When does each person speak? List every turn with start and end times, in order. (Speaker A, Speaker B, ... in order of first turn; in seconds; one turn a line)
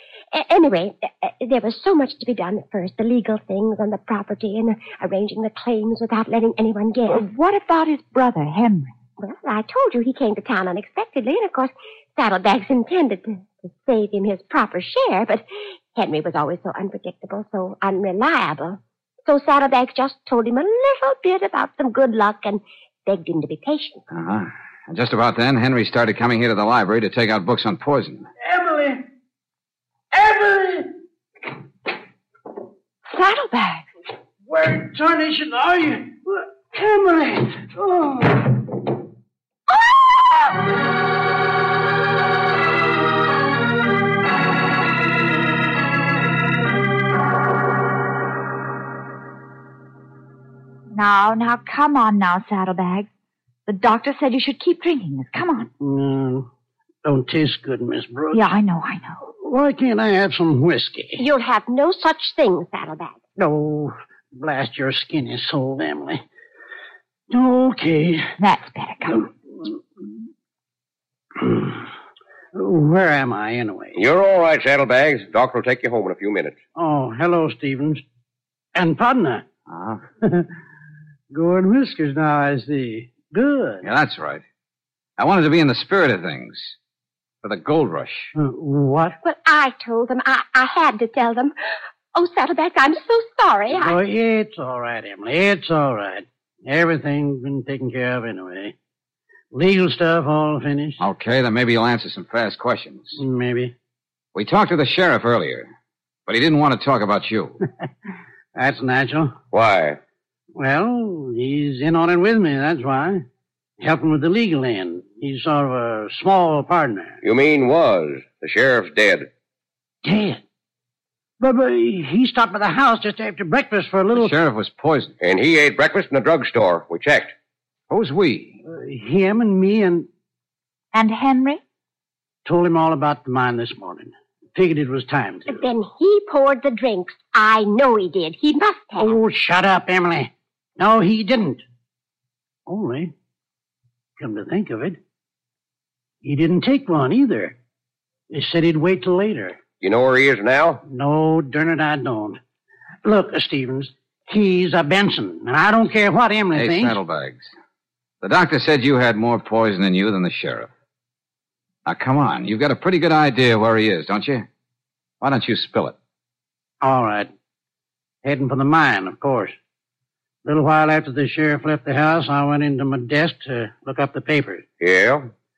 Speaker A: 0.3-7.2
Speaker B: 7.1-8.9
Speaker A: 9.2-24.0
Speaker C: 24.1-28.3
Speaker D: 28.4-29.0
Speaker D: 30.1-30.9
Speaker B: 33.1-33.9
Speaker D: 34.5-38.5
Speaker B: 50.9-53.1
Speaker B: 53.7-55.7
Speaker D: 55.8-56.5
Speaker D: 57.0-58.5
Speaker B: 58.3-59.3
Speaker D: 59.4-61.2
Speaker A: 61.2-63.3
Speaker D: 63.4-66.2
Speaker D: 67.3-68.3
Speaker B: 68.4-69.3
Speaker D: 71.4-71.8
Speaker D: 72.5-74.0
Speaker E: 74.0-76.6
Speaker D: 76.8-78.0
Speaker D: 78.7-79.4
Speaker C: 79.7-80.0
Speaker D: 80.2-80.5
Speaker D: 81.3-83.8
Speaker C: 83.8-84.4
Speaker C: 85.2-86.8
Speaker C: 87.4-88.3
Speaker D: 88.3-89.1
Speaker A: 89.2-91.5
Speaker A: 92.1-94.0
Speaker D: 93.7-98.7
Speaker D: 99.5-101.0
Speaker C: 101.0-103.2
Speaker D: 103.2-103.7
Speaker C: 104.3-105.7
Speaker C: 106.3-107.6
Speaker D: 108.5-109.3
Speaker E: 109.5-110.0
Speaker D: 110.5-113.2
Speaker D: 113.8-117.2
Speaker E: 117.2-119.3
Speaker D: 120.0-120.4
Speaker D: 121.4-124.3
Speaker C: 124.1-125.2
Speaker E: 125.2-127.3
Speaker C: 127.9-128.6
Speaker D: 128.6-130.1
Speaker B: 130.9-131.6
Speaker D: 132.4-135.6
Speaker A: 135.5-139.1
Speaker D: 139.0-141.6
Speaker D: 142.7-143.1
Speaker D: 144.2-145.0
Speaker D: 146.2-147.6
Speaker D: 148.3-149.6
Speaker E: 149.8-150.8
Speaker D: 150.9-152.4
Speaker D: 153.0-157.0
Speaker C: 156.5-157.5
Speaker C: 158.2-160.7
Speaker C: 161.8-164.5
Speaker C: 165.2-166.0
Speaker D: 166.8-167.3
Speaker D: 168.2-169.5
Speaker D: 170.4-174.6
Speaker E: 174.8-175.3